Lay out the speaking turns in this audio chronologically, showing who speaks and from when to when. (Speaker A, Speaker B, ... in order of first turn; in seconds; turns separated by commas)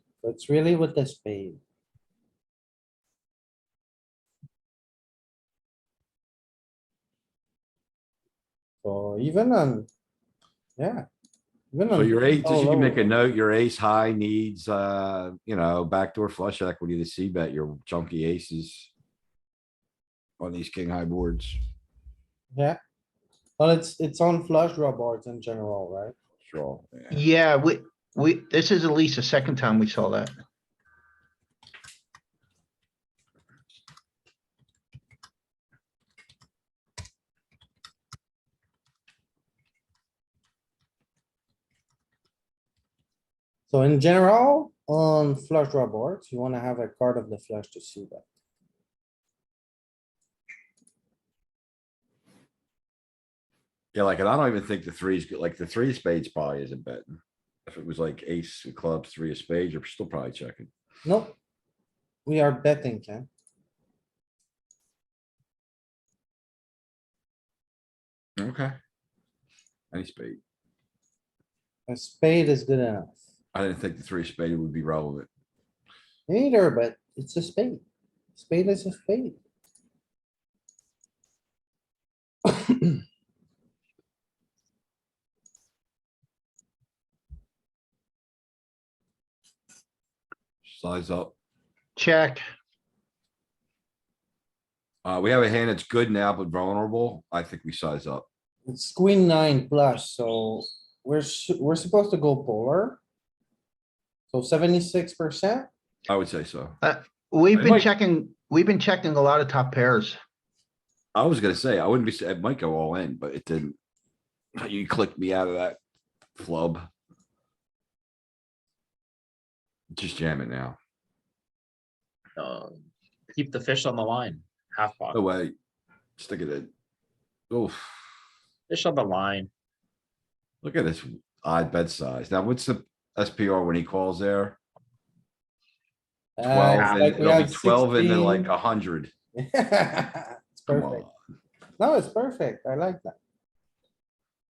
Speaker A: 0.2-1.6, Speaker A: 8.8-9.9, Speaker A: 10.8-11.1, Speaker A: 11.7-13.1, Speaker B: 11.9-18.9, Speaker B: 20.4-21.6, Speaker A: 22.5-22.8, Speaker A: 23.6-26.1, Speaker B: 26.4-27.2, Speaker C: 27.1-30.3, Speaker A: 43.7-48.2, Speaker B: 53.9-60.7, Speaker A: 61.0-61.3, Speaker A: 62.2-63.3, Speaker B: 68.4-68.8, Speaker B: 69.9-70.4, Speaker A: 71.9-73.2, Speaker B: 73.5-75.3, Speaker A: 76.3-77.8, Speaker A: 78.3-79.4, Speaker A: 82.5-83.0, Speaker B: 90.6-91.3, Speaker C: 92.0-92.4, Speaker B: 95.0-98.3, Speaker A: 98.7-103.0, Speaker A: 104.3-105.7, Speaker B: 106.1-106.8, Speaker C: 106.8-110.2, Speaker B: 107.5-107.9, Speaker B: 111.1-113.8, Speaker B: 114.6-115.8, Speaker B: 116.4-116.9, Speaker B: 119.9-120.8, Speaker D: 122.4-125.2, Speaker B: 125.1-125.5, Speaker B: 126.2-126.7, Speaker B: 127.5-128.1, Speaker D: 128.7-129.5, Speaker B: 130.6-134.6, Speaker A: 136.4-138.5, Speaker B: 136.4-139.1, Speaker D: 136.8-137.3, Speaker A: 139.4-141.1, Speaker B: 140.7-141.1, Speaker A: 141.8-143.2